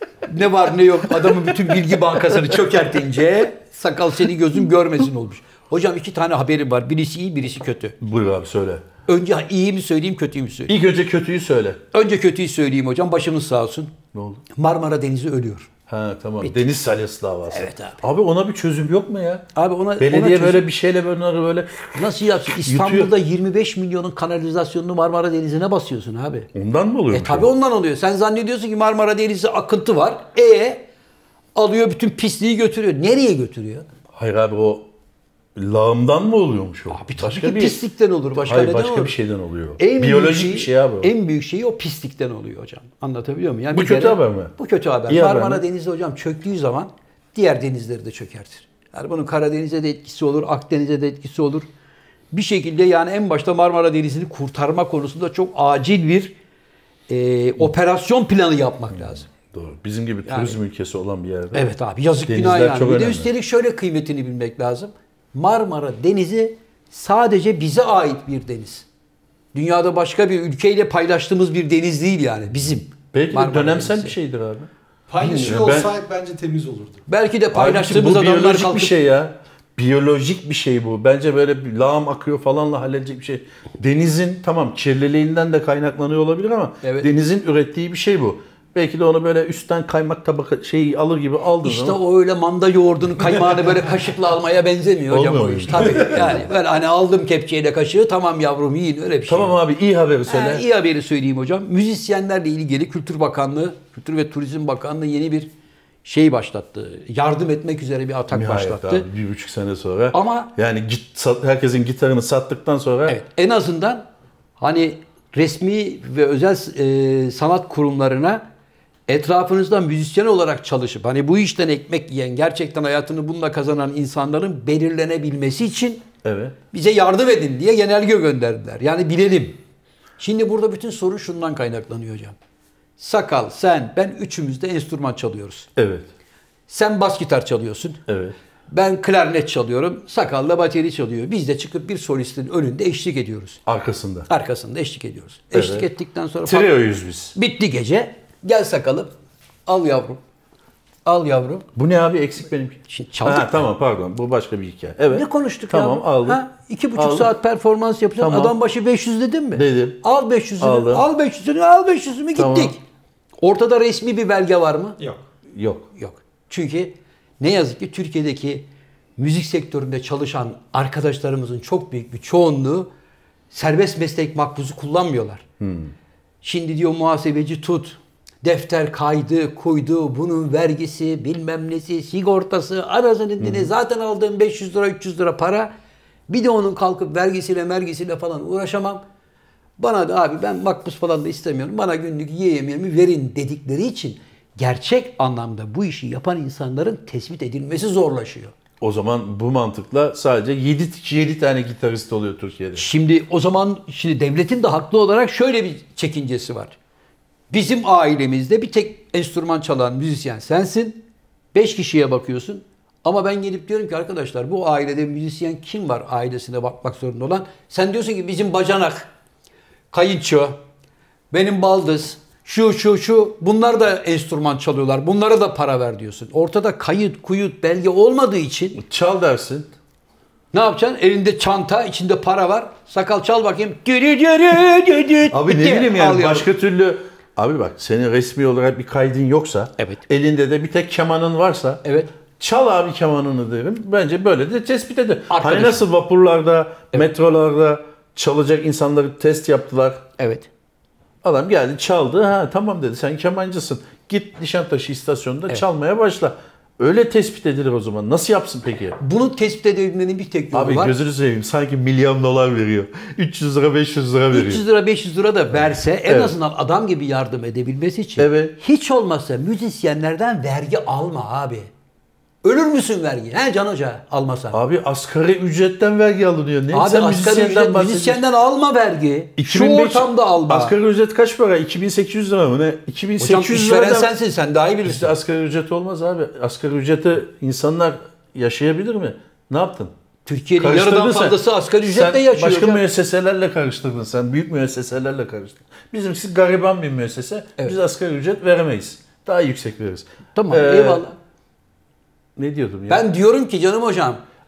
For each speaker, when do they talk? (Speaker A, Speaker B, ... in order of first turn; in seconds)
Speaker A: 0.3-8.0, 9.1-10.7, 11.9-13.9, 14.5-15.7, 17.5-18.0, 19.5-20.6, 21.9-26.5, 27.1-30.8, 31.5-33.9, 36.9-39.1, 39.8-51.7, 52.3-56.3, 57.1-59.3, 60.2-60.6, 61.5-68.8, 69.5-74.1, 75.2-75.7, 77.1-78.9, 86.8-87.1, 91.6-99.5, 100.3-105.5, 106.0-109.0, 110.1-110.5, 113.1-114.0, 114.6-118.4, 119.1-126.0, 126.7-129.6, 130.2-132.3, 133.0-135.7, 136.7-138.0, 138.7-143.6, 144.3-146.7, 147.3-149.1, 149.7-150.2, 151.0-151.7, 152.9-153.6, 155.1-162.8, 163.4-165.0, 165.9-168.7, 169.2-172.9, 173.5-175.4, 176.4-185.7, 186.3-189.0, 189.8-198.5, 202.7-206.8, 207.5-219.1, 219.9-220.6, 221.3-228.8, 230.5-236.5, 241.8-242.1, 245.3-245.8, 250.2-250.5, 259.0-260.9, 264.3-271.7, 272.4-274.6, 276.7-280.7, 283.2-285.1, 290.2-292.8, 300.3-301.2, 302.9-304.2
Speaker B: 1.2-2.6, 8.0-8.8, 10.7-11.8, 14.1-14.4, 15.9-19.4, 20.0-23.1, 26.5-27.5, 34.1-34.9, 35.5-37.8, 38.4-41.1, 43.7-44.5, 45.1-45.6, 58.9-61.6, 62.3-63.3, 73.1-74.7, 75.4-75.9, 77.5-92.0, 95.1-96.5, 99.3-100.6, 108.3-113.2, 126.2-126.5, 135.8-136.1, 138.1-138.3, 143.7-144.3, 145.5-145.8, 146.4-147.3, 151.7-156.4, 156.9-157.3, 158.2-158.5, 159.5-160.0, 160.6-161.1, 162.3-162.7, 165.5-165.9, 175.6-175.9, 183.4-183.7, 198.8-202.8, 228.8-229.7, 235.3-241.8, 242.4-250.0, 251.2-259.0, 260.5-264.6, 266.1-266.3, 268.2-268.6, 274.5-278.2, 279.4-284.1, 284.8-289.9, 290.6-301.0, 302.4-303.1
Speaker C: 75.1-77.0, 165.0-165.2